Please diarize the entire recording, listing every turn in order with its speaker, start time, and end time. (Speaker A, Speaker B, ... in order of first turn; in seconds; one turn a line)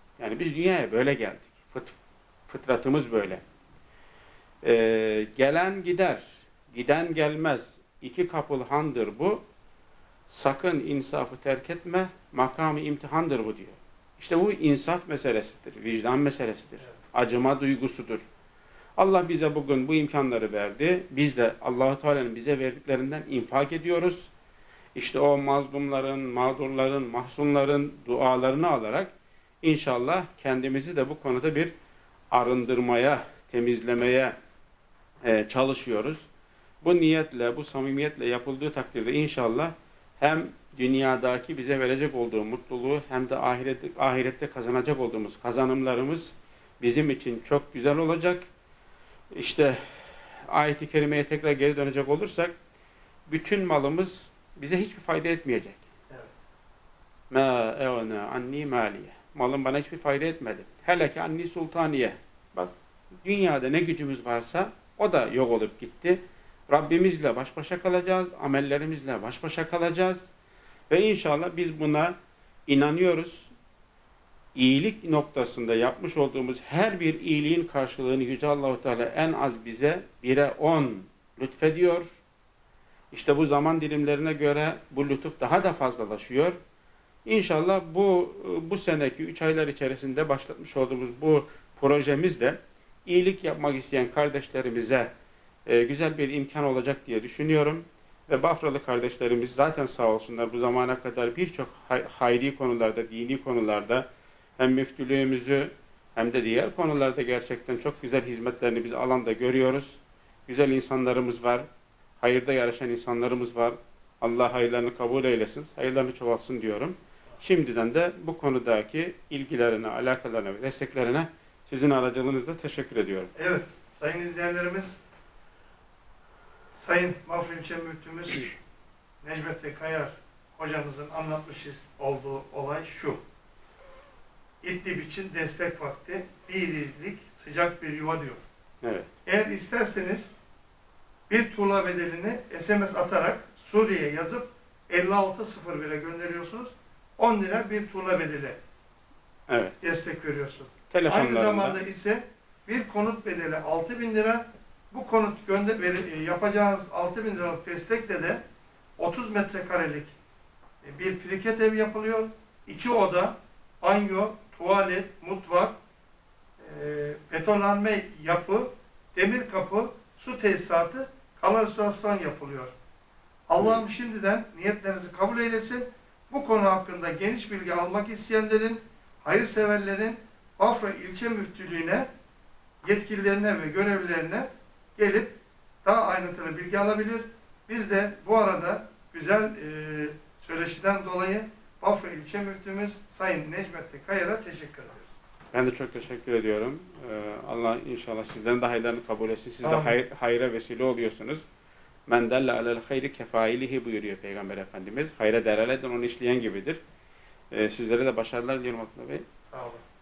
Speaker A: 0.2-1.9
Speaker A: 2.5-3.4
Speaker A: 4.6-9.4
Speaker A: 10.3-18.2
Speaker A: 19.0-24.3
Speaker A: 24.9-29.1
Speaker A: 29.6-31.7
Speaker A: 32.3-34.3
Speaker A: 35.2-36.2
Speaker A: 36.8-48.4
Speaker A: 49.3-49.8
Speaker A: 50.4-52.5
Speaker A: 53.3-55.8
Speaker A: 57.3-70.3
Speaker A: 70.9-72.2
Speaker A: 72.7-73.5
Speaker A: 74.5-82.1
Speaker A: 83.1-86.6
Speaker A: 87.2-95.1
Speaker A: 95.7-104.0
Speaker A: 104.6-111.6
Speaker A: 112.2-123.3
Speaker B: 123.3-125.0
Speaker B: 126.8-128.5
Speaker B: 129.2-133.2
Speaker B: 134.6-138.4
Speaker A: 138.8-139.1
Speaker B: 139.2-140.3
Speaker B: 141.3-148.6
Speaker A: 149.5-149.7
Speaker B: 149.8-158.4
Speaker A: 150.9-151.8
Speaker B: 159.0-160.1
Speaker B: 160.8-165.8
Speaker B: 166.6-172.7
Speaker B: 173.5-182.1
Speaker B: 182.8-195.1
Speaker A: 195.5-201.4
Speaker B: 199.6-200.0
Speaker A: 202.1-206.8
Speaker A: 207.5-209.2
Speaker B: 209.5-209.8